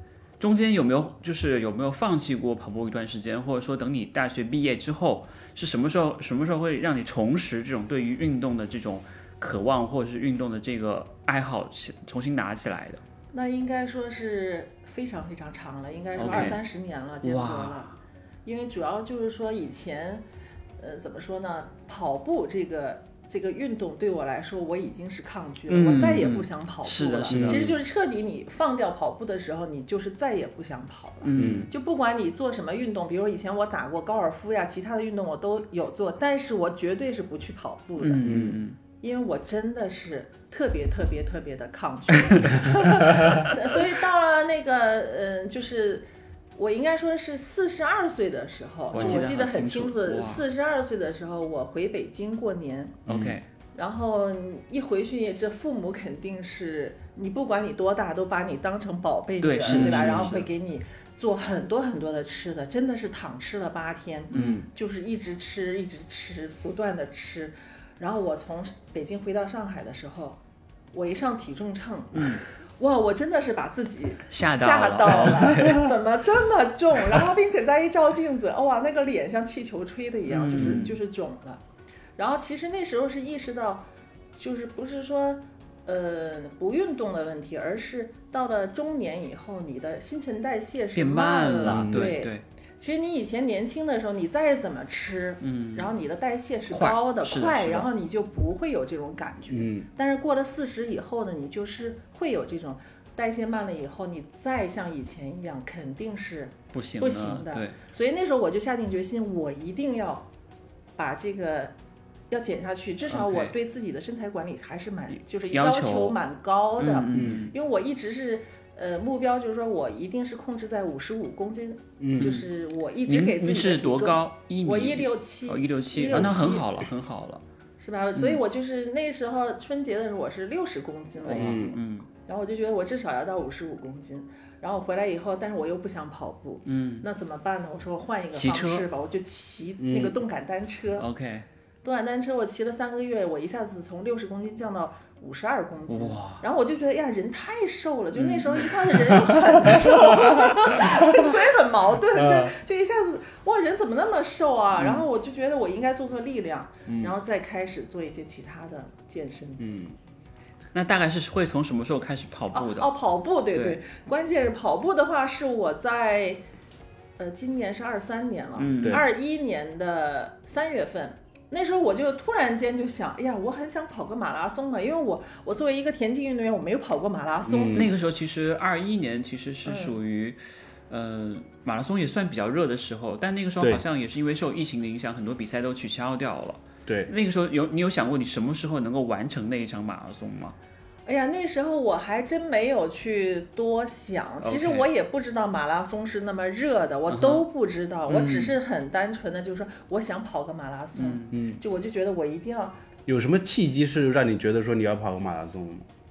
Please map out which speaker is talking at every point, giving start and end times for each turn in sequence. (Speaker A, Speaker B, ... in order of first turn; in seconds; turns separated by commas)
Speaker A: 0.4-13.0, Speaker B: 13.3-17.9, Speaker A: 16.2-16.6, Speaker C: 16.3-16.6, Speaker A: 17.2-17.9, Speaker B: 18.4-20.2, Speaker B: 20.8-38.4, Speaker A: 25.7-27.7, Speaker C: 27.3-27.8, Speaker A: 31.2-31.7, Speaker C: 31.4-31.7, Speaker A: 38.0-38.8, Speaker C: 38.2-38.6, Speaker B: 38.9-46.0, Speaker A: 42.3-43.0, Speaker B: 46.6-53.0, Speaker A: 48.9-50.4, Speaker C: 48.9-49.3, Speaker A: 53.1-53.5, Speaker C: 53.1-53.4, Speaker B: 53.8-70.4, Speaker A: 59.4-60.5, Speaker C: 59.7-60.3, Speaker A: 64.3-64.6, Speaker C: 64.3-64.7, Speaker B: 70.9-81.6, Speaker A: 72.2-72.4, Speaker A: 74.3-75.9, Speaker A: 80.3-81.0, Speaker B: 82.2-83.9, Speaker B: 84.4-110.3, Speaker A: 91.0-92.4, Speaker C: 91.7-92.2, Speaker A: 95.4-95.9, Speaker A: 96.7-97.9, Speaker C: 99.5-99.9, Speaker A: 106.7-107.8, Speaker B: 111.0-111.7, Speaker B: 112.3-126.7, Speaker A: 113.1-113.5, Speaker A: 115.5-116.2, Speaker A: 116.8-117.5, Speaker C: 117.1-117.5, Speaker C: 122.0-122.3, Speaker A: 122.2-122.5, Speaker A: 123.1-127.4, Speaker C: 126.1-126.5, Speaker B: 127.8-141.1, Speaker A: 131.2-132.1, Speaker C: 131.4-131.8, Speaker A: 136.7-137.1, Speaker A: 138.3-138.8, Speaker C: 139.8-140.2, Speaker A: 141.0-141.5, Speaker B: 141.8-159.8, Speaker A: 145.9-146.4, Speaker A: 148.2-148.9, Speaker C: 149.9-151.3, Speaker C: 152.2-152.6, Speaker C: 156.9-157.1, Speaker C: 159.6-160.0, Speaker A: 160.7-162.9, Speaker B: 162.5-166.4, Speaker A: 163.5-163.8, Speaker B: 167.2-177.9, Speaker A: 168.6-169.0, Speaker C: 177.5-177.9, Speaker A: 177.7-190.6, Speaker B: 179.7-180.0, Speaker C: 186.9-187.1, Speaker B: 191.1-202.8, Speaker A: 194.4-194.9, Speaker A: 197.1-197.4, Speaker A: 198.1-198.6, Speaker A: 201.0-201.4, Speaker C: 201.3-201.6, Speaker C: 203.1-205.9